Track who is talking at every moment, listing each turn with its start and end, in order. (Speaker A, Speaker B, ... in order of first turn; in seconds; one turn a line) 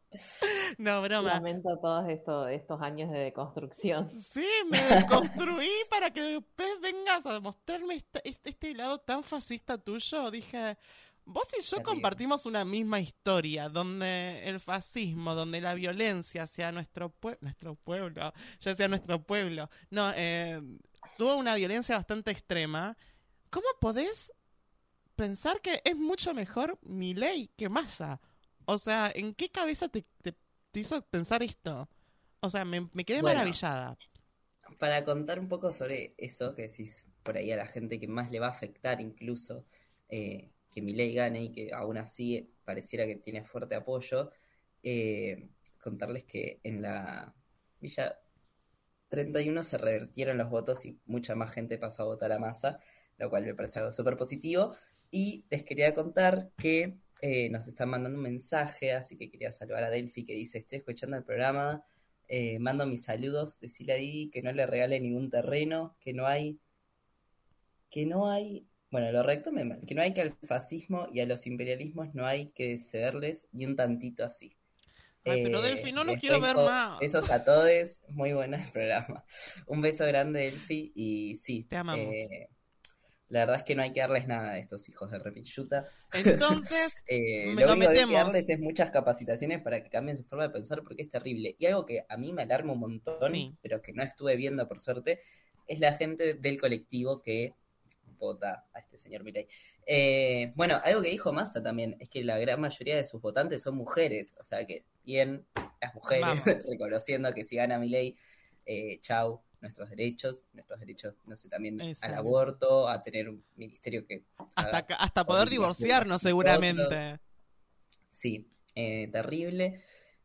Speaker A: 0.4-1.4
Speaker B: 1.2-4.1
Speaker A: 4.1-23.0
Speaker C: 11.8-12.2
Speaker A: 23.5-24.3
Speaker A: 25.1-31.9
Speaker A: 32.4-34.0
Speaker C: 33.1-33.6
Speaker C: 34.8-44.3
Speaker C: 44.8-48.1
Speaker C: 49.1-66.6
Speaker C: 67.9-74.5
Speaker C: 75.2-82.5
Speaker A: 75.2-77.1
Speaker A: 81.7-82.2
Speaker C: 83.3-97.5
Speaker A: 86.1-88.4
Speaker A: 93.2-93.5
Speaker C: 98.1-117.0
Speaker A: 106.1-106.6
Speaker A: 111.8-112.4
Speaker A: 114.6-117.2
Speaker C: 118.1-119.8